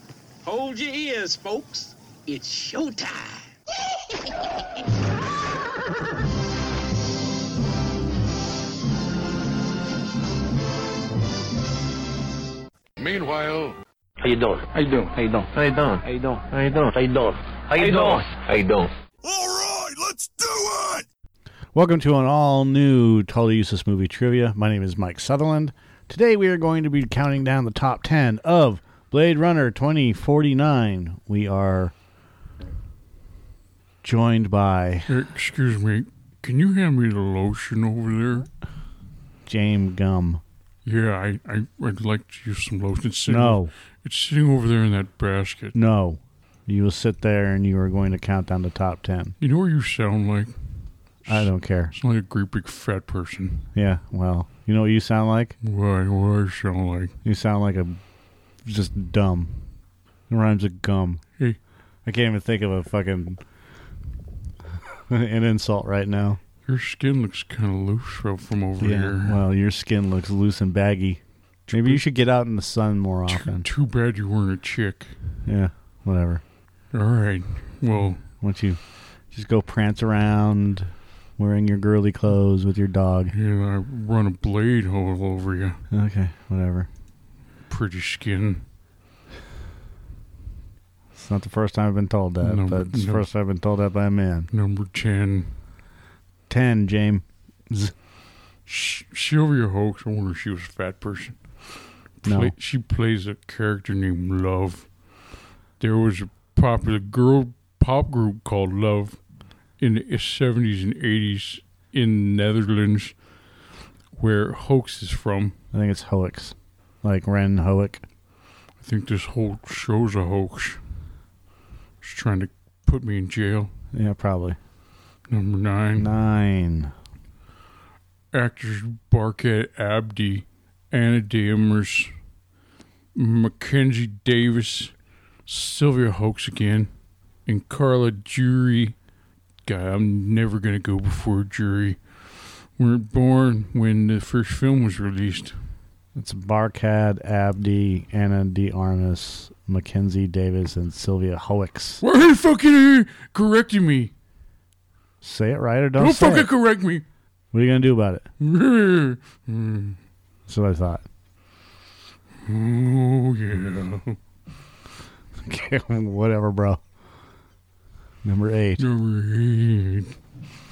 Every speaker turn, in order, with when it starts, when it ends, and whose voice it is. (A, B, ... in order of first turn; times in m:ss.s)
0:00.4-0:03.4 A
0:13.0-0:13.8 B
0:14.2-0:18.9 C
0:17.8-0:18.2 B
0:19.2-0:21.0 B
0:21.7-0:31.9 D
0:34.0-0:35.2 D
0:35.1-0:38.5 E
0:39.4-0:40.4 D
0:40.8-0:45.8 E
0:43.2-0:43.7 D
0:45.7-0:49.4 D
0:49.4-0:50.5 E
0:51.2-0:53.7 E
0:51.3-0:51.9 D
0:53.7-0:55.6 D
0:55.6-0:57.1 E
0:57.2-0:58.0 D
0:58.6-0:59.6 D
1:00.3-1:01.2 D
1:02.0-1:03.4 D
1:05.1-1:06.4 D
1:06.6-1:09.4 E
1:08.8-1:11.2 D
1:11.7-1:12.0 E
1:11.7-1:13.7 D
1:13.3-1:15.1 E
1:15.4-1:16.4 D
1:16.9-1:18.2 E
1:18.4-1:18.8 D
1:19.3-1:23.3 D
1:23.3-1:25.8 E
1:25.9-1:26.9 D
1:27.7-1:28.6 E
1:31.1-1:34.5 D
1:32.4-1:33.3 E
1:34.5-1:35.5 E
1:36.5-1:37.9 D
1:38.6-1:44.9 E
1:42.2-1:42.5 D
1:45.8-1:49.2 E
1:49.8-1:53.2 E
1:54.1-1:55.6 E
1:55.7-1:58.0 D
1:58.8-2:00.8 E
2:02.0-2:03.7 E
2:03.9-2:04.6 D
2:05.3-2:06.1 E
2:06.0-2:06.9 D
2:08.3-2:12.1 E
2:13.1-2:14.9 E
2:15.4-2:16.9 E
2:17.4-2:19.0 E
2:19.6-2:25.6 E
2:26.1-2:32.0 D
2:32.0-2:34.1 E
2:35.2-2:36.5 D
2:36.0-2:37.0 E
2:37.5-2:38.3 D
2:38.4-2:40.0 E
2:40.5-2:41.0 D
2:42.4-2:44.2 E
2:45.4-2:46.8 D
2:48.2-2:48.8 D
2:48.8-2:50.1 E